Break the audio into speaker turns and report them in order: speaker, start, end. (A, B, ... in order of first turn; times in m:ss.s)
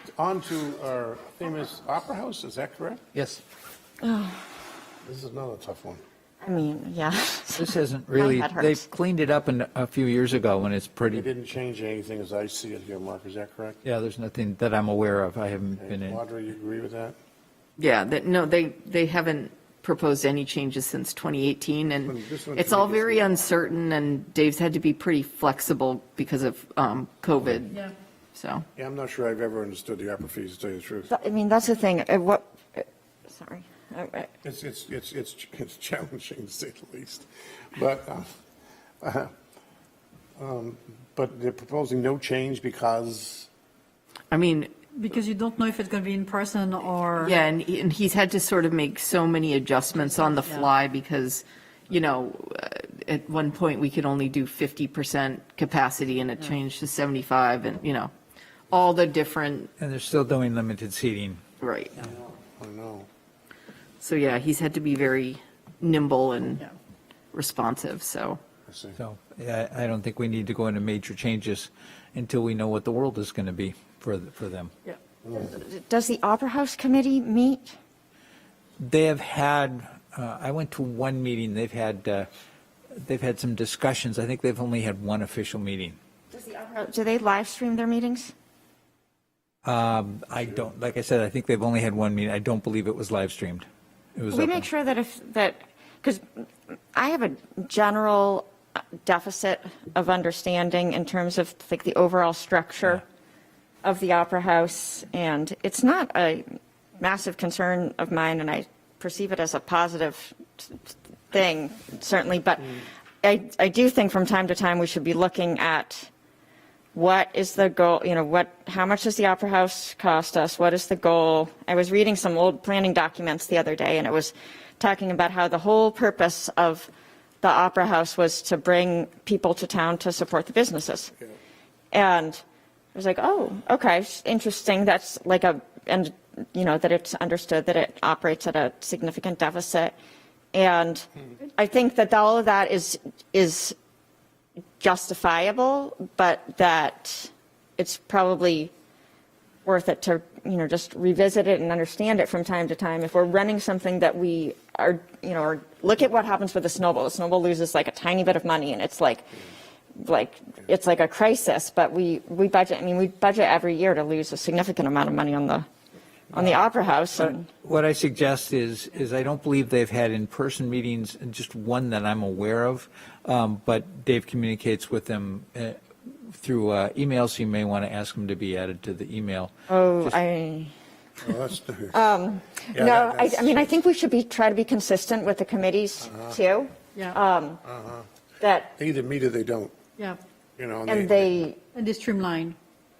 0:00.1-0:03.0 A
0:03.1-0:03.4 B
0:04.0-0:04.4 C
0:05.0-0:06.0 A
0:06.4-0:08.8 C
0:07.6-0:11.3 B
0:11.1-0:13.8 A
0:13.8-0:16.2 B
0:15.8-0:17.2 A
0:17.8-0:28.6 D
0:22.1-0:23.8 A
0:28.8-0:31.1 A
0:31.1-0:34.3 C
0:34.4-0:38.3 A
0:39.0-0:39.3 A
0:40.4-0:43.5 A
0:44.3-0:44.8 D
0:44.9-0:47.3 E
0:47.2-0:58.1 D
0:58.7-0:59.7 D
0:59.8-1:01.4 B
1:01.6-1:02.0 D
1:02.0-1:03.1 A
1:04.0-1:06.6 D
1:07.3-1:08.4 D
1:08.7-1:09.0 A
1:09.0-1:14.7 B
1:15.3-1:17.8 C
1:18.8-1:22.3 B
1:22.9-1:26.0 B
1:26.3-1:28.3 C
1:29.6-1:34.7 B
1:34.3-1:36.2 C
1:36.9-1:38.5 C
1:39.0-1:43.0 C
1:43.8-1:56.1 C
1:56.9-2:06.9 C
2:07.4-2:11.1 C
2:11.9-2:12.4 C
2:12.9-2:19.9 C
2:20.5-2:23.8 C
2:24.8-2:28.7 C
2:29.6-2:39.4 C
2:40.0-2:45.7 C
2:46.3-2:47.5 C
2:46.4-2:46.6 B
2:47.2-3:00.2 B
2:59.7-3:00.7 C
3:01.2-3:02.1 A
3:01.9-3:07.6 C
3:02.7-3:03.8 A
3:06.0-3:06.4 A
3:07.6-3:08.0 A
3:08.4-3:08.7 C
3:08.8-3:09.7 A
3:10.6-3:11.3 A
3:10.9-3:11.6 C
3:11.7-3:12.6 E